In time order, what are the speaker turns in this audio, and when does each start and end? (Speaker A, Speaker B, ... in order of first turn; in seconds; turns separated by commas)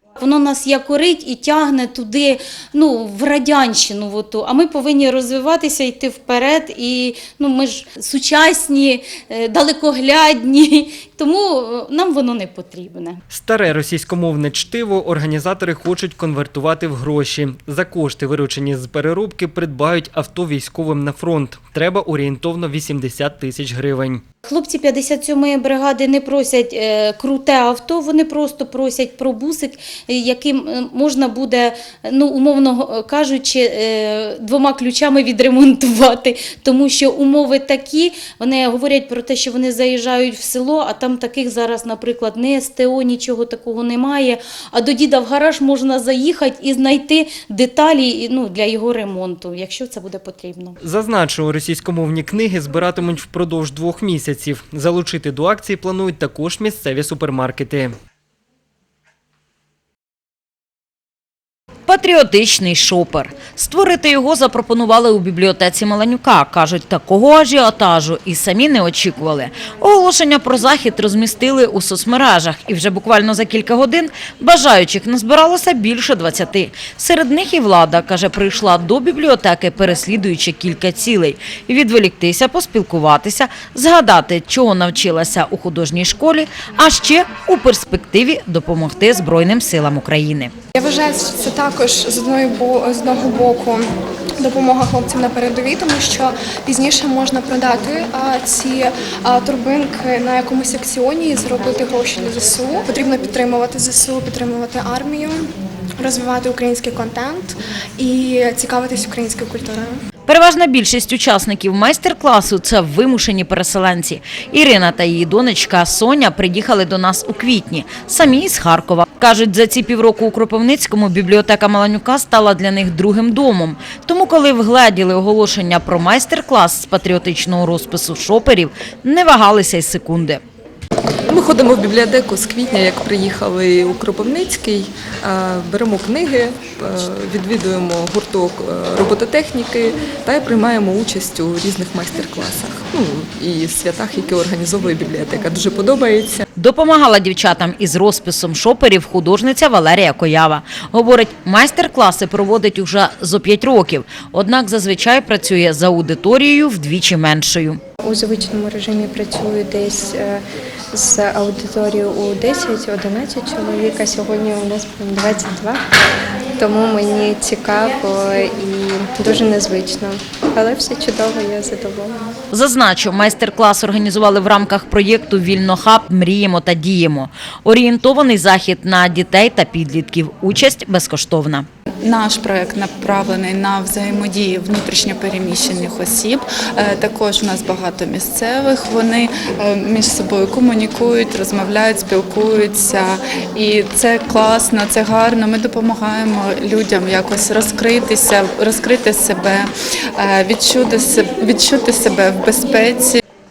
Speaker A: 0.2-13.2, Speaker B: 13.3-24.2, Speaker A: 24.4-50.8, Speaker B: 50.8-57.9, Speaker C: 61.9-90.5, Speaker D: 90.8-93.8, Speaker D: 94.4-105.4, Speaker D: 106.0-110.0, Speaker C: 110.3-130.4, Speaker E: 131.3-146.4, Speaker C: 146.6-157.8, Speaker F: 158.0-160.4, Speaker F: 160.9-165.8, Speaker F: 166.6-172.2, Speaker C: 172.5-181.7, Speaker G: 182.0-203.2